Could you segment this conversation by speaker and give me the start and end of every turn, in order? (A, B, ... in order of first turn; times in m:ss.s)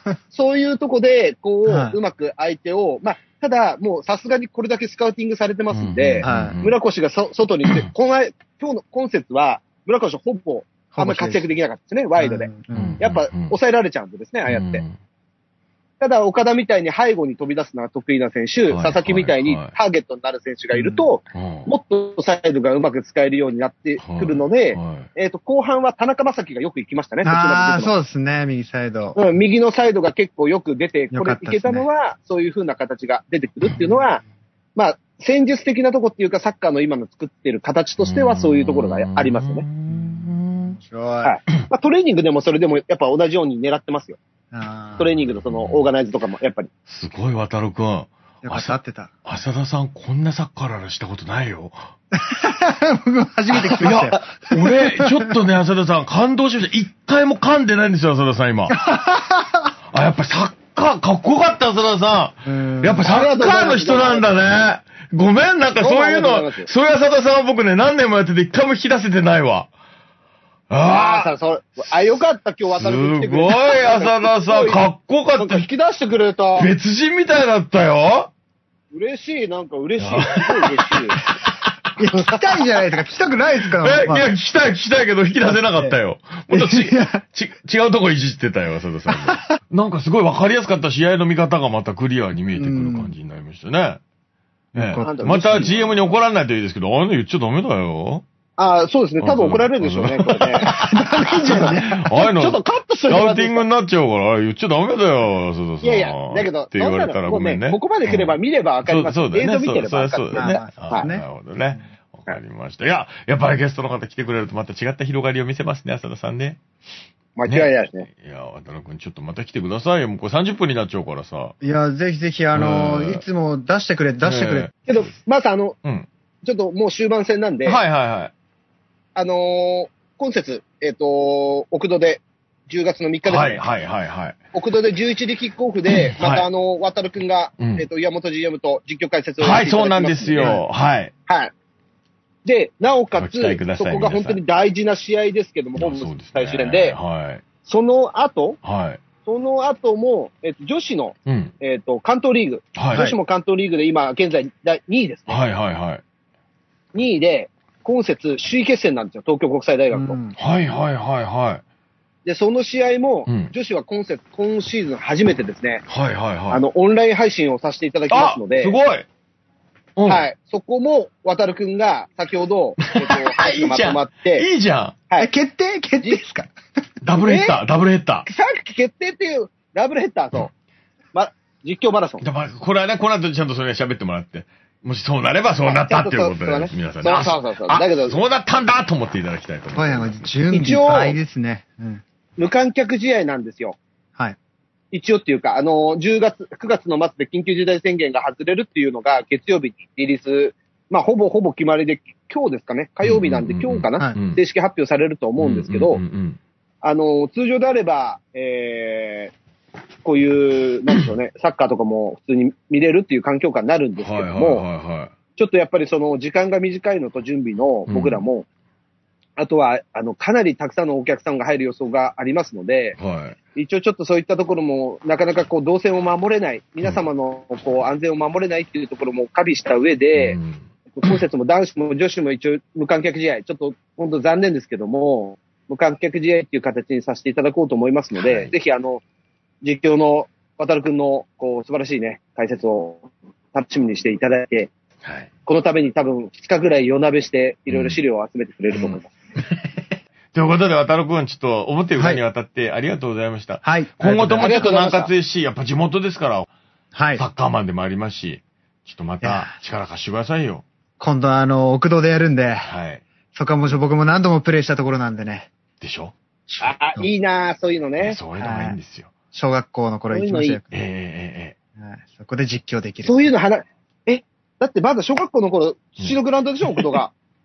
0:00.3-0:14.8 A
0:01.7-0:02.0 B
0:05.7-0:06.7 C
0:06.2-0:06.6 B
0:10.9-0:11.5 B
0:12.2-0:13.0 B
0:12.7-0:13.6 C
0:14.5-0:15.0 C
0:16.0-0:27.9 A
0:18.7-0:19.8 C
0:20.7-0:21.1 B
0:21.3-0:21.7 C
0:24.0-0:25.1 C
0:27.2-0:29.2 B
0:29.2-0:34.2 A
0:31.1-0:31.9 B
0:34.8-0:39.7 A
0:38.0-0:40.8 C
0:39.9-0:41.4 B
0:41.2-0:44.2 A
0:44.5-0:45.1 B
0:45.0-0:45.8 C
0:45.0-0:46.7 A
0:46.9-0:51.9 C
0:48.4-0:49.1 B
0:52.1-0:55.3 B
0:53.6-0:53.9 A
0:53.8-0:58.8 C
0:58.7-0:59.7 B
0:59.9-1:09.7 C
1:02.4-1:03.1 B
1:03.1-1:04.3 A
1:05.8-1:06.7 A
1:10.7-1:11.3 C
1:10.8-1:14.8 A
1:12.7-1:15.7 C
1:15.4-1:16.7 A
1:16.6-1:18.3 C
1:18.9-1:21.2 A
1:20.0-1:20.9 C
1:21.5-1:24.3 B
1:23.8-1:34.0 C
1:26.5-1:27.2 B
1:32.6-1:33.1 B
1:34.7-1:38.2 C
1:34.8-1:35.7 B
1:35.0-1:36.2 A
1:38.6-1:43.6 A
1:39.2-1:56.6 C
1:40.6-1:42.0 B
1:45.8-1:51.1 A
1:50.3-1:51.3 B
1:57.4-1:58.1 A
1:57.5-2:01.6 C
2:01.6-2:04.7 B
2:02.5-2:03.2 C
2:04.2-2:04.7 C
2:04.9-2:05.8 A
2:06.4-2:07.8 A
2:07.6-2:08.3 C
2:09.2-2:13.6 A
2:13.2-2:14.4 C
2:14.5-2:20.6 A
2:15.9-2:16.5 C
2:17.6-2:17.9 C
2:19.4-2:21.1 C
2:21.3-2:21.5 A
2:22.4-2:27.0 A
2:23.2-2:24.4 C
2:25.8-2:27.4 C
2:27.6-2:28.6 A
2:28.6-2:29.0 C
2:29.2-2:35.4 A
2:31.3-2:31.5 C
2:32.8-2:33.1 C
2:35.3-2:36.0 C
2:36.9-2:40.2 A
2:39.9-2:40.4 B
2:40.4-2:41.6 C
2:42.2-2:45.8 A
2:43.3-2:43.5 C
2:45.9-2:46.6 C
2:46.5-2:48.7 A
2:48.1-2:49.1 C
2:50.0-2:50.2 C
2:50.1-2:54.5 A
2:52.8-2:55.0 C
2:55.2-2:56.5 B
2:57.0-2:58.3 C
2:57.2-2:57.6 A
2:58.3-3:00.5 A
3:01.1-3:02.2 A
3:02.2-3:10.3 C
3:05.6-3:08.2 A
3:09.8-3:12.0 B
3:10.5-3:11.2 A
3:12.4-3:13.8 A
3:14.9-3:26.0 A
3:23.0-3:24.4 C
3:25.4-3:26.4 C
3:26.8-3:29.3 A
3:30.0-3:34.6 A
3:34.0-3:35.1 C
3:35.4-3:38.4 A
3:37.9-3:38.2 C
3:39.4-3:43.0 A
3:43.0-3:43.4 C
3:43.6-3:50.4 A
3:50.2-3:51.2 C
3:50.9-3:59.0 A
3:58.2-3:58.5 C
3:59.6-4:04.7 A
4:05.0-4:05.3 C
4:05.5-4:09.1 A
4:07.7-4:08.0 C
4:08.7-4:16.5 C
4:12.0-4:12.2 B
4:13.6-4:14.7 B
4:14.4-4:15.1 A
4:16.9-4:17.2 B
4:17.2-4:20.6 C
4:19.2-4:19.5 B
4:21.0-4:22.7 B
4:22.6-4:23.0 C
4:23.3-4:25.5 B
4:25.8-4:26.2 C
4:26.5-4:27.1 B
4:26.6-4:28.2 A
4:28.0-4:29.1 C
4:28.4-4:28.8 B
4:29.3-4:30.8 B
4:30.1-4:30.6 A
4:30.7-4:31.6 C
4:31.8-4:33.3 B
4:33.0-4:37.1 A
4:36.0-4:37.0 C